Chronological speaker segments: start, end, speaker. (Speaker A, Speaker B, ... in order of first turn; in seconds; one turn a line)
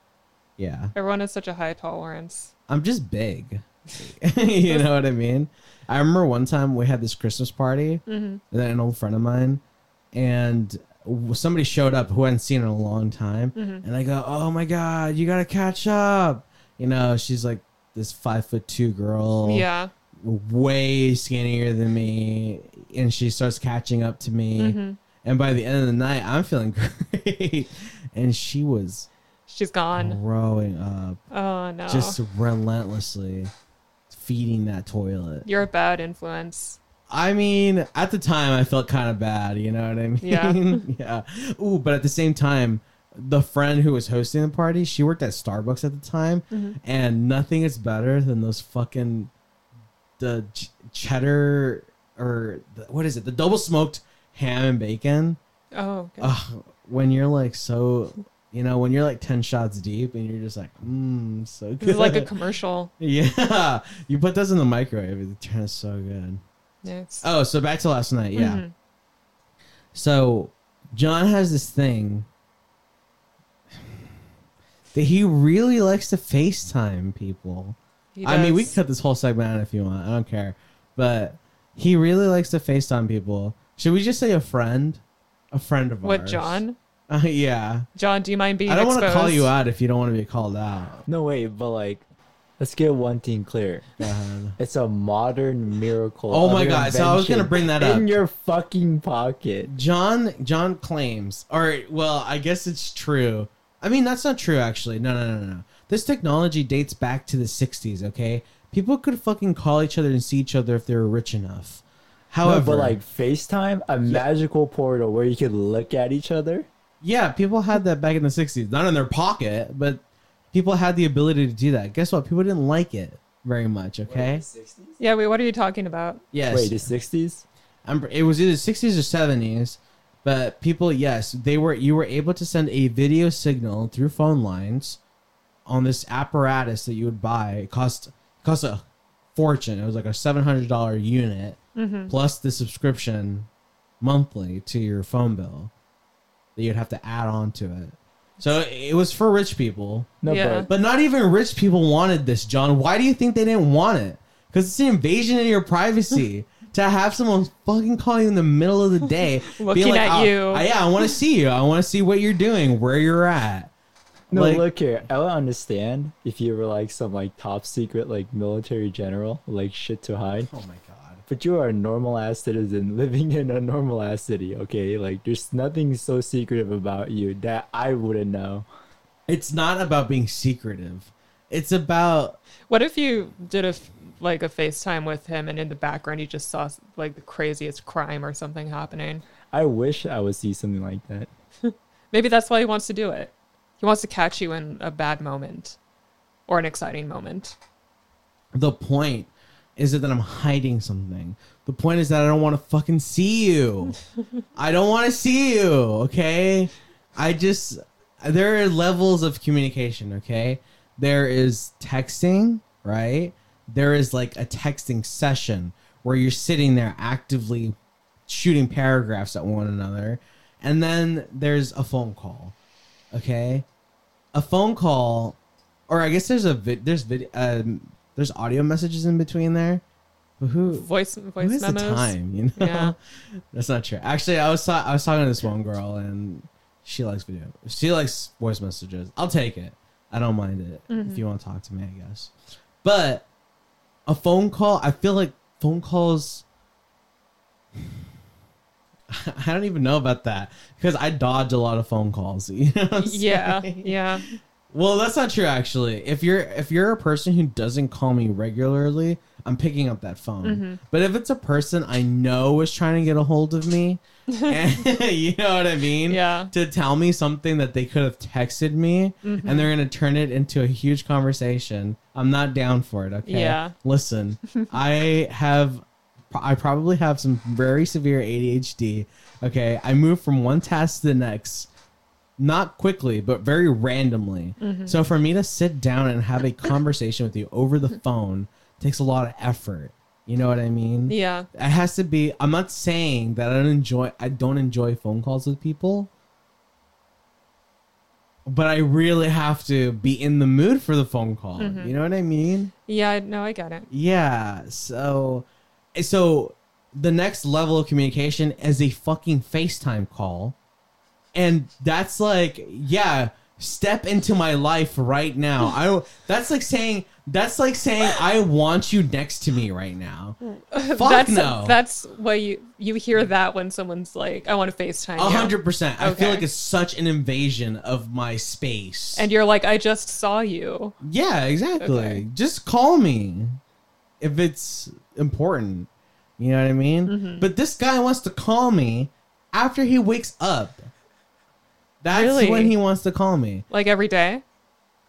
Speaker A: 0.6-0.9
Speaker B: 0.9-2.5
Speaker A: 2.7-9.6
Speaker B: 8.1-8.4
Speaker A: 10.1-19.6
Speaker B: 13.5-13.8
Speaker B: 19.4-19.9
Speaker A: 20.2-29.1
Speaker B: 24.6-25.0
Speaker B: 29.5-30.2
Speaker A: 29.9-31.2
Speaker B: 31.3-32.2
Speaker A: 31.9-33.5
Speaker A: 34.1-35.5
Speaker B: 35.4-36.8
Speaker A: 37.1-49.3
Speaker B: 40.2-40.8
Speaker B: 46.5-46.8
Speaker A: 50.2-55.4
Speaker B: 55.7-56.3
Speaker A: 56.2-62.3
Speaker B: 61.8-62.9
Speaker A: 63.0-66.4
Speaker B: 66.8-67.3
Speaker A: 67.2-68.6
Speaker B: 68.3-68.7
Speaker A: 69.9-72.3
Speaker A: 74.9-87.9
Speaker B: 78.2-78.8
Speaker B: 86.0-86.8
Speaker B: 88.0-89.5
Speaker A: 88.7-91.0
Speaker C: 91.1-92.0
Speaker C: 92.6-93.9
Speaker A: 94.0-94.6
Speaker C: 94.6-99.7
Speaker A: 96.3-98.2
Speaker A: 99.7-113.0
Speaker C: 112.4-116.7
Speaker A: 117.0-120.0
Speaker A: 120.5-124.4
Speaker C: 124.0-125.0
Speaker B: 125.0-126.2
Speaker A: 126.3-126.9
Speaker C: 126.5-127.4
Speaker A: 127.8-135.0
Speaker A: 135.7-138.8
Speaker A: 139.3-143.5
Speaker B: 141.7-142.1
Speaker A: 144.0-145.7
Speaker A: 146.6-150.1
Speaker C: 150.2-150.7
Speaker B: 150.2-150.7
Speaker A: 150.7-163.7
Speaker B: 159.4-160.7
Speaker A: 164.3-164.6
Speaker C: 164.3-170.5
Speaker A: 170.4-171.2
Speaker C: 171.3-178.7
Speaker A: 179.3-182.4
Speaker B: 182.7-189.2
Speaker C: 189.5-191.3
Speaker B: 191.6-195.8
Speaker B: 196.5-197.6
Speaker A: 198.5-204.0
Speaker A: 204.5-217.7
Speaker A: 218.3-222.5
Speaker A: 223.1-223.7
Speaker A: 224.3-225.3
Speaker A: 225.9-229.8
Speaker A: 230.4-230.9
Speaker B: 230.7-232.9
Speaker A: 231.4-233.0
Speaker A: 233.5-242.3
Speaker B: 240.9-241.2
Speaker A: 242.8-243.3
Speaker A: 244.1-246.4
Speaker A: 249.1-281.7
Speaker B: 253.0-254.4
Speaker B: 260.4-260.8
Speaker B: 264.3-264.6
Speaker B: 266.1-266.5
Speaker B: 269.2-269.7
Speaker B: 273.2-273.7
Speaker A: 282.4-296.1
Speaker B: 284.6-285.0
Speaker B: 291.1-291.5
Speaker A: 298.4-302.7
Speaker B: 301.6-301.9
Speaker B: 302.9-303.9
Speaker A: 303.9-310.5
Speaker A: 311.3-320.4
Speaker B: 320.4-326.4
Speaker A: 320.9-321.8
Speaker A: 325.2-329.3
Speaker B: 329.1-330.9
Speaker A: 331.0-333.6
Speaker B: 331.8-332.2
Speaker A: 334.2-335.9
Speaker A: 336.4-340.9
Speaker B: 337.1-337.5
Speaker A: 342.0-343.6
Speaker B: 342.1-342.8
Speaker B: 343.7-344.4